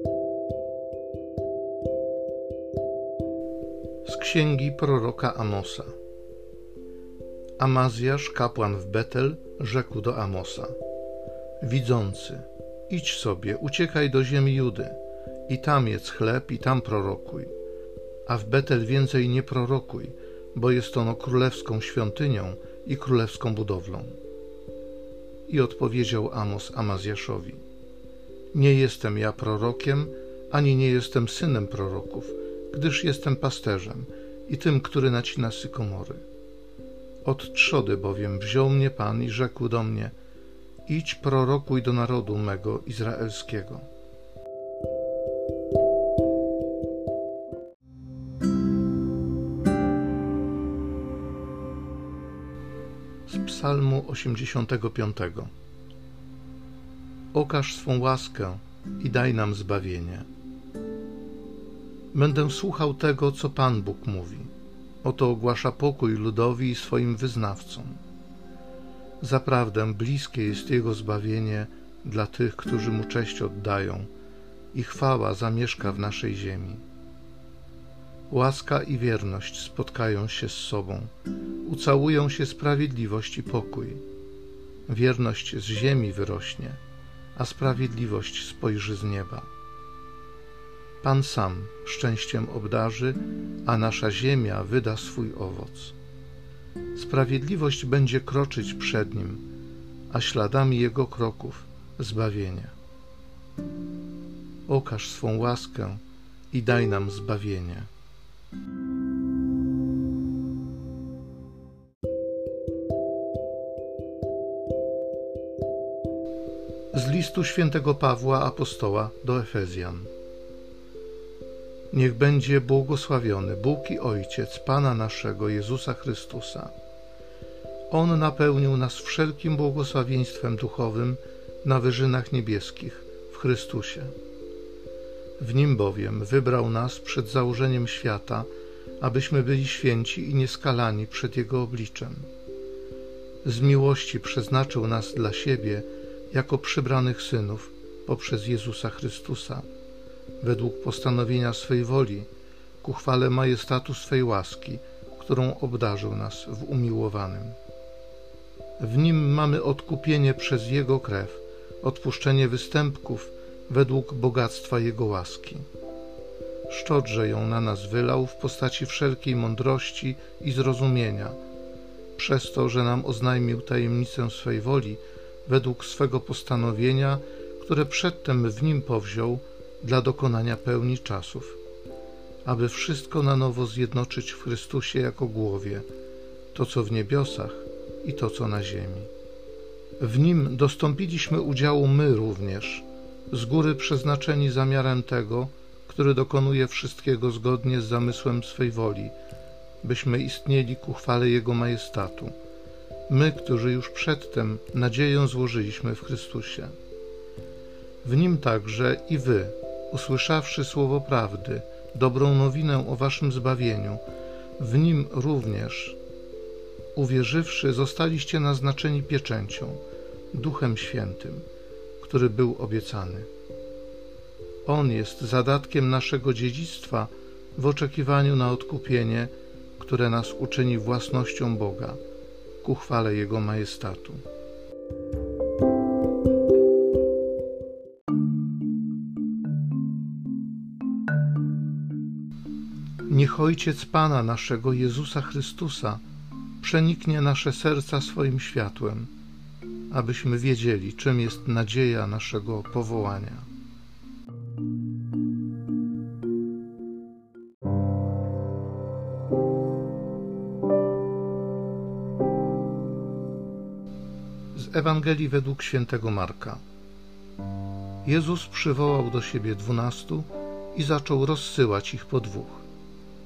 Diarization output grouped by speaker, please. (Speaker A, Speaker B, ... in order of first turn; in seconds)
Speaker A: 4.0-5.9, 7.6-10.8, 11.6-17.5, 18.2-24.2, 25.5-27.6, 28.5-36.2, 37.2-40.1, 40.9-43.9, 53.3-55.5, 57.3-60.3, 62.1-64.5, 65.0-68.0, 69.2-74.1, 74.7-76.8, 78.3-81.1, 81.6-84.0, 84.9-86.8, 87.3-89.5, 91.0-96.0, 96.9-99.4, 100.1-102.7, 104.7-107.9, 116.9-120.1, 121.9-126.7, 127.9-134.1, 135.4-138.5, 139.0-142.3, 143.4-149.7, 150.4-152.3, 152.8-157.6, 158.8-165.7, 166.7-171.4, 172.2-181.6, 182.4-185.8, 186.5-189.1, 190.0-199.2, 199.8-202.3, 203.1-206.7, 208.0-214.0, 214.6-216.0, 216.9-219.8, 220.3-221.4, 222.0-223.3, 224.6-232.0, 232.6-234.2, 243.1-246.0, 246.6-249.1, 249.9-253.5, 264.5-266.6, 268.0-272.6